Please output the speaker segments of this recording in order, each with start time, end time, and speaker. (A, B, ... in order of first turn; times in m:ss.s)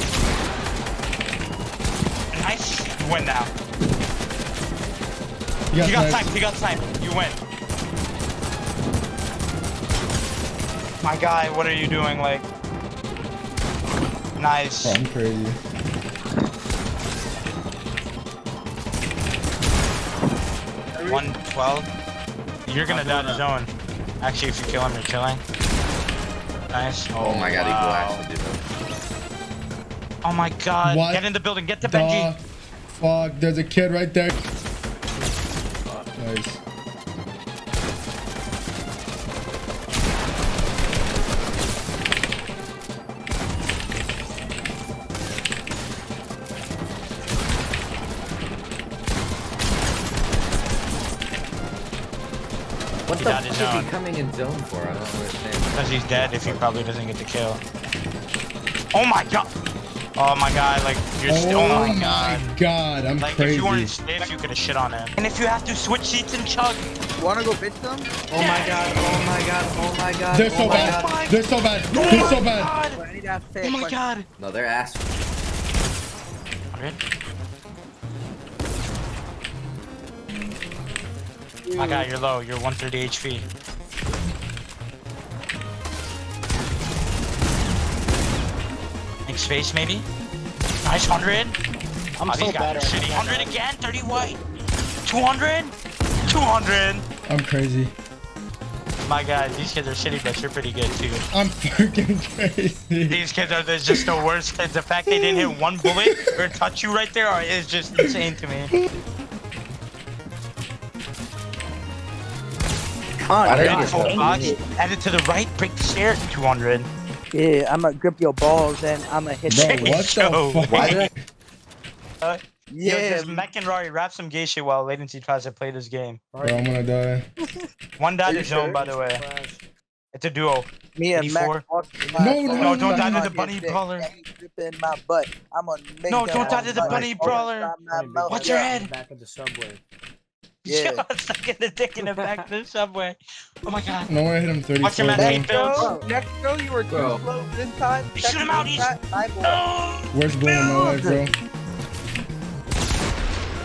0:02.3-0:03.5 A
0:05.7-0:06.3 B
0:05.8-0:07.4 A
0:11.0-0:12.5 A
0:14.4-0:15.0 A
0:14.8-0:15.6 B
0:20.9-0:21.2 C
0:21.1-0:21.9 A
0:22.6-0:23.7 A
0:22.9-0:23.4 D
0:24.2-0:25.4 A
0:26.7-0:28.2 A
0:27.2-0:28.6 D
0:30.2-0:32.3 A
0:30.8-0:31.2 B
0:31.8-0:34.3 B
0:36.2-0:36.6 B
0:53.1-0:56.6 D
0:53.2-0:53.9 A
0:55.7-0:57.6 A
0:58.9-0:59.5 A
1:00.2-1:02.5 A
1:01.2-1:03.9 B
1:01.7-1:01.9 C
1:03.2-1:06.9 A
1:07.2-1:11.1 C
1:08.3-1:09.2 A
1:10.3-1:12.8 B
1:10.5-1:11.0 D
1:10.7-1:11.3 A
1:11.9-1:13.0 A
1:12.9-1:14.0 C
1:13.6-1:14.2 A
1:14.4-1:15.1 D
1:16.7-1:17.0 A
1:21.6-1:22.1 C
1:21.8-1:23.4 A
1:29.3-1:30.1 A
1:30.8-1:31.6 A
1:32.2-1:33.5 C
1:32.2-1:34.4 A
1:35.0-1:35.8 A
1:36.2-1:37.0 A
1:37.3-1:37.9 B
1:39.0-1:41.2 A
1:41.3-1:43.2 B
1:43.1-1:48.7 A
1:45.8-1:46.1 B
1:53.3-1:54.6 C
1:53.4-1:54.6 D
1:53.6-1:56.9 A
1:57.3-2:00.0 C
1:59.5-2:01.1 B
1:59.6-2:01.1 A
2:00.7-2:01.0 D
2:02.2-2:06.2 A
2:02.7-2:03.4 C
2:06.3-2:06.8 E
2:06.4-2:07.2 B
2:08.0-2:09.2 A
2:08.2-2:08.8 C
2:08.6-2:09.6 E
2:10.1-2:11.6 A
2:11.0-2:18.7 C
2:12.2-2:13.2 B
2:12.5-2:14.1 A
2:16.1-2:17.8 A
2:16.3-2:19.8 E
2:18.3-2:18.9 A
2:20.6-2:24.1 A
2:20.6-2:21.0 C
2:22.0-2:22.4 E
2:24.1-2:25.5 B
2:24.8-2:26.0 A
2:25.1-2:29.6 C
2:26.9-2:27.2 D
2:28.1-2:30.9 A
2:30.1-2:31.3 B
2:30.6-2:31.2 C